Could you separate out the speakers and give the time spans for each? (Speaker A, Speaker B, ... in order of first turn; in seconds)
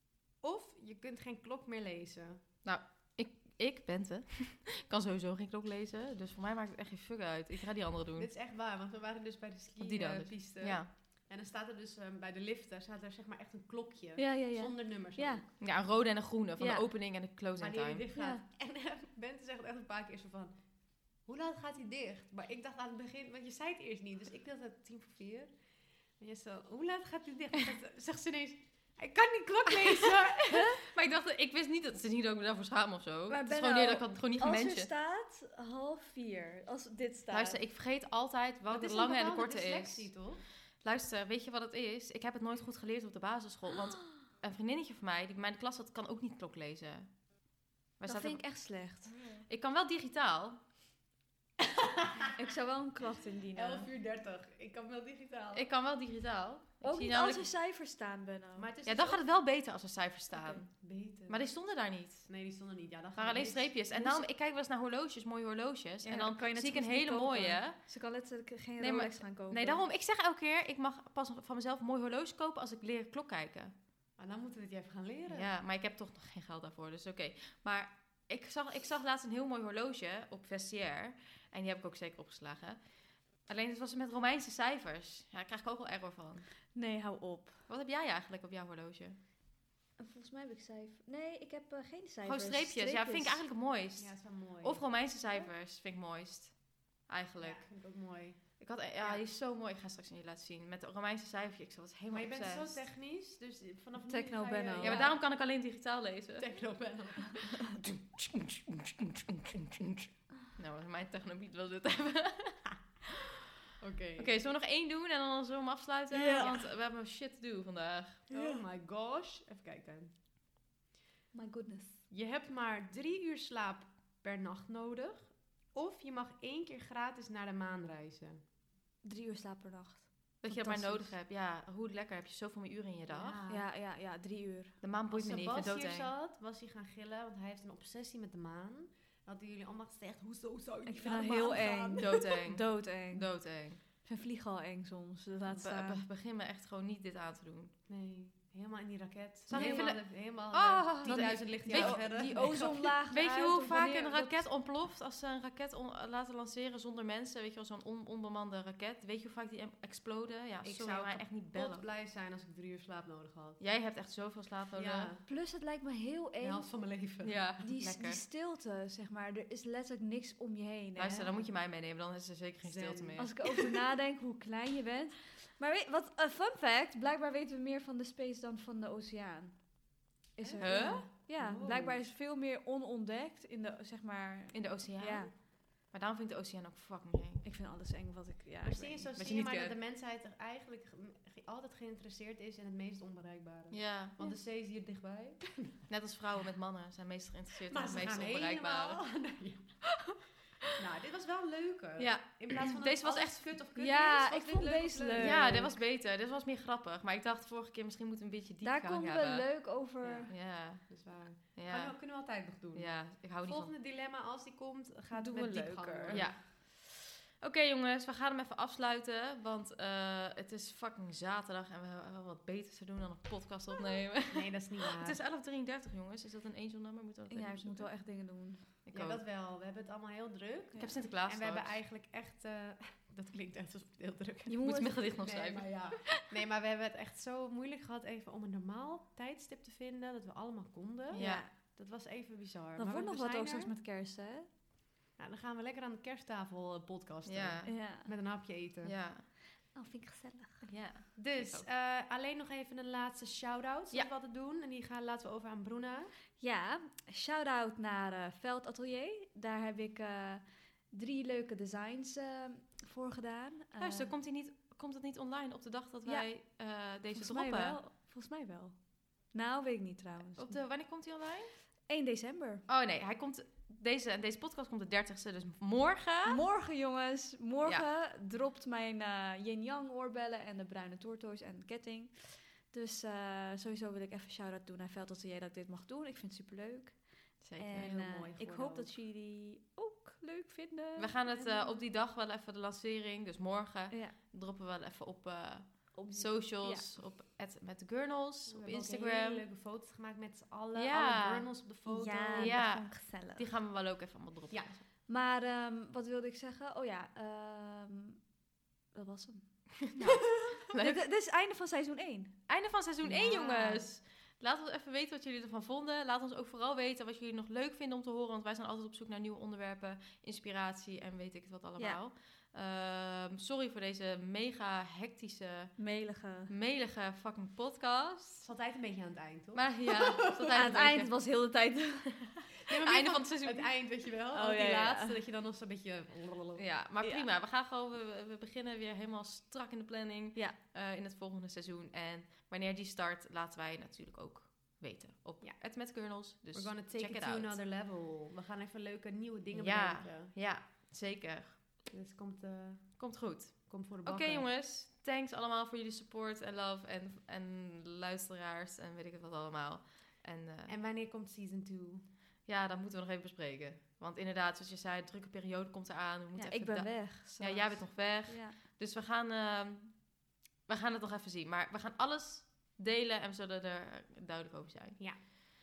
Speaker A: 0.3-2.4, 8.2-15.5, 17.6-20.6, 21.2-25.5, 26.2-30.8, 38.7-40.4, 49.0-49.5, 51.7-52.3, 53.5-55.7, 58.5-59.2, 60.3-61.5, 62.3-64.2, 74.2-75.5, 94.0-94.9, 97.4-99.3, 102.1-105.2, 106.4-107.6, 113.8-114.3, 118.3-120.1, 122.1-128.4, 133.1-133.7, 135.1-142.2, 147.9-153.0, 160.6-163.6, 164.8-165.2, 166.4-167.5, 172.6-173.2, 180.4-182.1, 188.6-195.8, 197.7-199.9, 200.7-205.8, 210.0-210.3, 210.9-216.4, 224.3-225.2, 228.9-243.7, 245.2-248.9, 251.2-256.1, 287.8-288.9, 291.4-291.7, 298.5-302.6, 304.5-304.8, 328.4-330.7, 332.7-336.6, 346.5-350.3, 351.9-353.1, 353.7-354.5, 360.7-362.1
Speaker B: 2.6-8.3, 9.8-10.9, 15.6-18.1, 29.7-34.9, 37.3-47.1, 48.0-48.7, 49.5-50.6, 55.5-57.5, 58.9-62.3, 63.2-67.9, 68.8-73.7, 75.3-86.5, 87.7-89.2, 92.2-97.7, 98.6-102.8, 104.8-106.5, 107.4-113.3, 114.2-118.2, 130.4-133.4, 134.8-136.1, 142.0-143.8, 145.6-147.7, 149.5-161.9, 163.6-165.1, 167.2-168.2, 170.9-173.6, 180.6-181.1, 184.5-187.4, 189.2-189.7, 193.7-194.2, 195.9-199.0, 202.0-203.6, 205.2-209.6, 210.3-211.0, 211.6-212.2, 212.7-213.7, 216.1-227.9, 228.8-229.2, 230.8-231.7, 234.6-235.7, 241.1-241.4, 247.2-247.9, 248.8-249.2, 250.6-251.7, 263.8-267.8, 270.4-271.6, 272.7-276.4, 287.4-287.9, 291.0-299.4, 300.7-301.5, 302.4-304.8, 310.7-311.0, 312.5-328.4, 329.5-331.3, 332.7-333.7, 336.6-347.6, 349.5-351.8, 353.0-360.7, 362.4-375.3
Speaker C: 14.2-15.4, 16.6-16.9, 18.2-18.4, 30.5-30.8, 33.3-37.6, 48.0-49.1, 52.4-53.9, 56.8-58.7, 66.0-69.8, 86.7-87.6, 90.0-93.4, 104.0-105.0, 116.1-116.7, 118.3-118.6, 121.3-122.0, 129.0-131.1, 133.5-134.8, 140.8-143.4, 143.9-146.0, 149.5-149.9, 151.0-154.4, 165.2-166.7, 167.6-171.3, 173.2-185.3, 187.4-189.1, 203.8-205.7, 208.6-210.3, 215.1-216.3, 227.3-228.7, 234.5-235.1, 241.1-241.5, 242.8-244.5, 247.7-248.1, 249.7-250.7, 256.4-264.1, 267.1-270.6, 271.9-272.6, 276.3-291.6, 293.9-294.2, 295.9-296.9, 301.9-303.5, 305.1-308.3, 308.9-313.9, 325.8-326.5, 330.5-332.4, 334.3-335.2, 366.4-368.6